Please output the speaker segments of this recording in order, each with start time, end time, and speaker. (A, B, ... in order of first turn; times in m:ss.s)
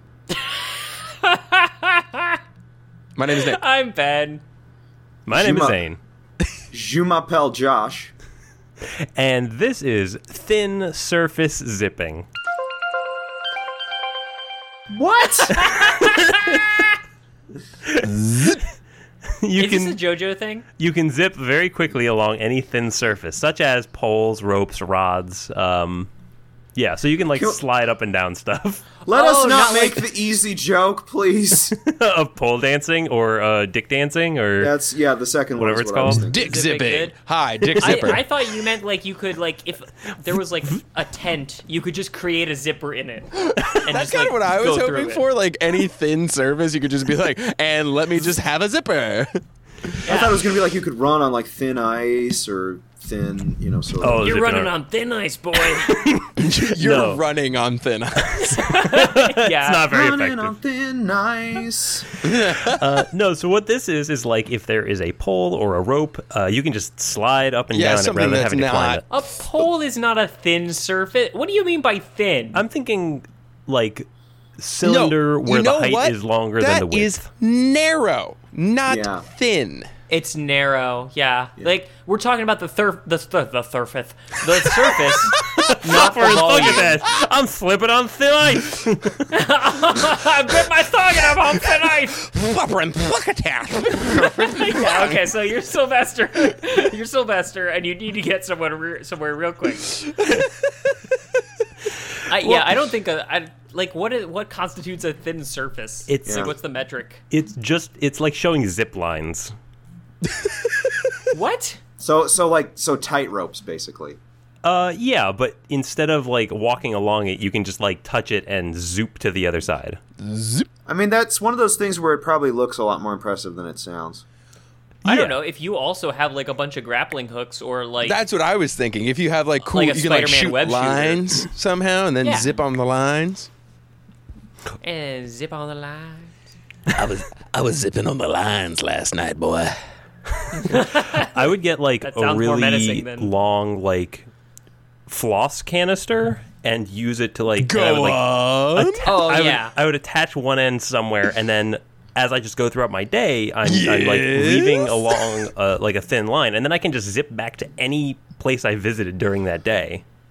0:00.4-0:02.4 A
0:03.2-0:03.6 B
0:03.3-0:04.4 A
0:05.3-0:06.0 C
0:05.3-0:05.8 D
0:06.7-0:08.1 D
0:09.1-0:12.3 C
0:14.9-0:15.8 D
0:15.8-0:16.6 C
0:17.8-0:18.7 C
0:18.1-0:18.5 B
0:19.4-0:20.0 C
0:19.6-0:20.6 A
0:20.8-0:26.1 C
0:26.8-0:28.8 C
0:27.3-0:27.6 D
0:29.1-0:31.8 D
0:29.1-0:30.1 A
0:31.6-0:34.8 C
0:34.6-0:36.5 D
0:35.6-0:36.3 C
0:36.0-0:38.2 B
0:36.3-0:37.2 A
0:37.6-0:38.2 C
0:37.8-0:45.2 A
0:43.5-0:50.0 B
0:50.0-0:54.3 D
0:50.1-0:50.4 A
0:54.0-0:54.7 C
0:54.2-0:56.0 A
0:55.9-0:57.2 C
0:56.4-0:58.6 B
0:58.3-1:00.5 C
0:58.6-0:59.9 A
0:59.9-1:02.1 D
1:02.2-1:02.8 B
1:02.5-1:09.1 C
1:07.7-1:09.0 B
1:09.1-1:12.6 A
1:12.6-1:17.3 C
1:14.8-1:19.9 B
1:18.9-1:19.2 D
1:20.1-1:27.1 A
1:24.8-1:25.6 B
1:25.6-1:29.3 C
1:29.3-1:32.2 A
1:31.9-1:35.3 B
1:34.0-1:40.1 A
1:40.1-1:40.6 B
1:42.3-1:47.2 A
1:46.1-1:46.5 C
1:46.2-1:46.5 D
1:47.3-1:49.5 C
1:50.3-1:51.0 B
1:51.3-1:51.8 A
1:52.0-1:54.2 D
1:54.6-2:00.0 C
2:00.2-2:00.7 B
2:00.9-2:04.2 D
2:05.0-2:08.2 A
2:08.0-2:13.5 B
2:09.6-2:11.3 A
2:12.2-2:12.6 A
2:14.8-2:16.3 A
2:16.9-2:19.8 B
2:20.5-2:23.3 A
2:20.7-2:24.3 C
2:25.1-2:40.0 C
2:27.6-2:29.2 B
2:29.0-2:29.7 A
2:33.6-2:35.5 B